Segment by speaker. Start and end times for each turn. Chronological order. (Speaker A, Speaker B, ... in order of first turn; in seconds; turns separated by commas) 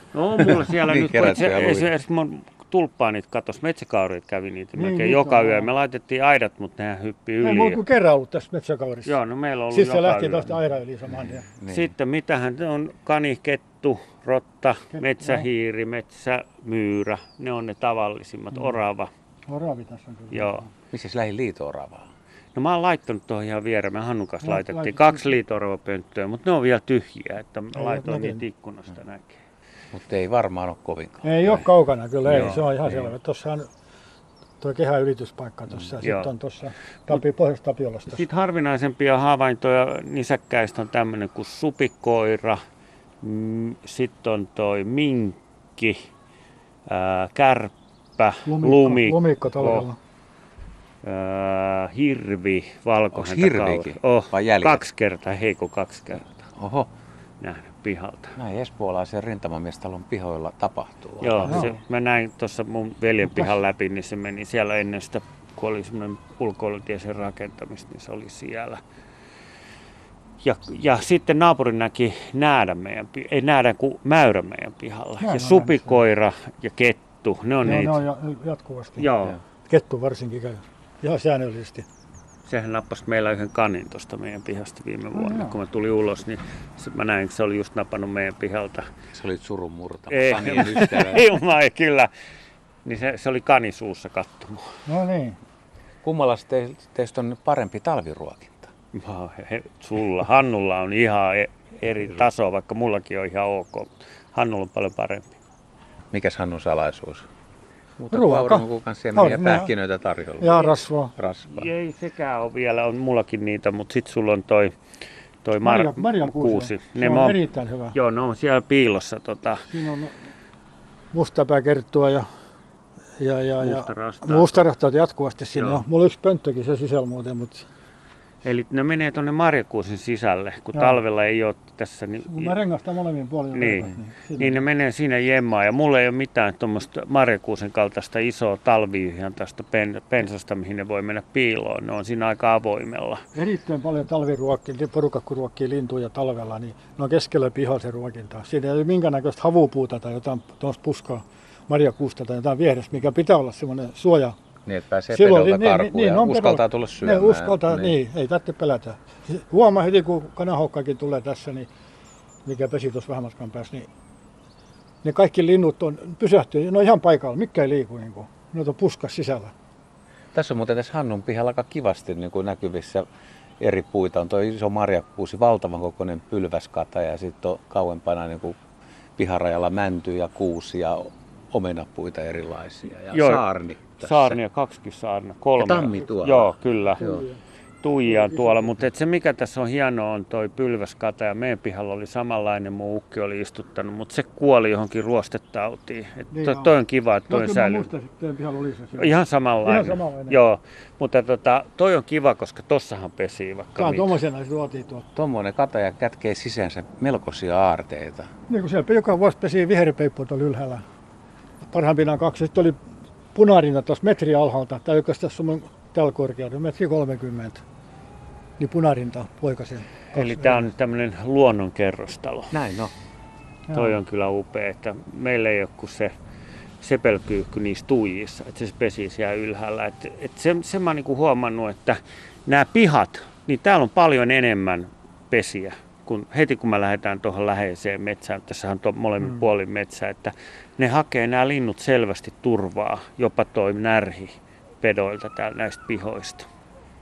Speaker A: 0.1-7.8, Speaker B: 0.4-1.9, Speaker C: 4.7-5.7, Speaker C: 7.4-9.2, Speaker A: 9.0-10.5, Speaker C: 9.7-11.5, Speaker B: 11.1-11.9, Speaker A: 11.7-19.1, Speaker C: 14.9-15.5, Speaker C: 19.5-20.7, Speaker A: 20.3-20.6, Speaker B: 20.9-22.1, Speaker A: 22.5-29.4, Speaker C: 24.4-25.3, Speaker C: 27.7-28.4, Speaker B: 29.9-31.7, Speaker C: 31.2-33.7, Speaker A: 32.2-32.7, Speaker B: 32.3-33.1, Speaker C: 34.6-38.2, Speaker A: 36.0-36.3, Speaker A: 38.1-42.6, Speaker A: 43.2-46.0, Speaker A: 46.9-49.9, Speaker C: 48.4-50.0, Speaker A: 51.0-56.5, Speaker B: 53.1-54.8, Speaker B: 56.5-56.9, Speaker A: 57.4-58.4, Speaker B: 58.4-61.7, Speaker A: 61.2-68.8, Speaker C: 61.4-61.8, Speaker A: 70.4-78.0, Speaker C: 75.2-76.0, Speaker C: 77.6-79.1, Speaker A: 79.0-79.4, Speaker C: 79.7-81.8, Speaker A: 82.4-88.9, Speaker C: 85.1-85.6, Speaker B: 89.1-91.3, Speaker A: 90.1-92.1, Speaker A: 92.8-94.7, Speaker C: 94.8-95.4, Speaker B: 96.0-98.7, Speaker A: 98.9-105.4, Speaker B: 106.1-107.3, Speaker B: 108.0-111.7, Speaker C: 108.1-109.7, Speaker C: 110.4-111.2, Speaker A: 111.5-114.7, Speaker A: 115.4-117.4, Speaker C: 115.6-118.0, Speaker A: 117.9-119.6, Speaker C: 119.6-120.2, Speaker C: 121.1-122.3, Speaker C: 123.2-127.6, Speaker A: 123.6-124.6, Speaker A: 125.5-125.8, Speaker A: 128.4-132.6, Speaker C: 130.7-131.0, Speaker C: 132.2-134.6, Speaker A: 133.5-143.2, Speaker C: 143.3-154.3, Speaker B: 154.6-158.0, Speaker C: 155.1-161.7, Speaker C: 162.4-163.9, Speaker C: 165.0-169.5, Speaker B: 170.3-173.1, Speaker B: 173.6-178.6, Speaker B: 179.2-184.4, Speaker A: 183.1-183.4, Speaker A: 184.0-187.1, Speaker B: 185.6-187.2, Speaker C: 187.0-187.4, Speaker A: 187.8-197.9, Speaker C: 188.0-188.8, Speaker C: 196.3-196.8, Speaker C: 197.3-200.4, Speaker A: 198.9-204.2, Speaker C: 203.7-205.1, Speaker B: 205.2-208.3, Speaker C: 208.5-210.8, Speaker C: 211.6-212.8, Speaker C: 213.3-217.6, Speaker C: 218.6-220.7, Speaker A: 220.1-222.6, Speaker B: 222.5-222.9, Speaker C: 223.7-224.0, Speaker A: 223.7-226.2, Speaker A: 226.8-246.4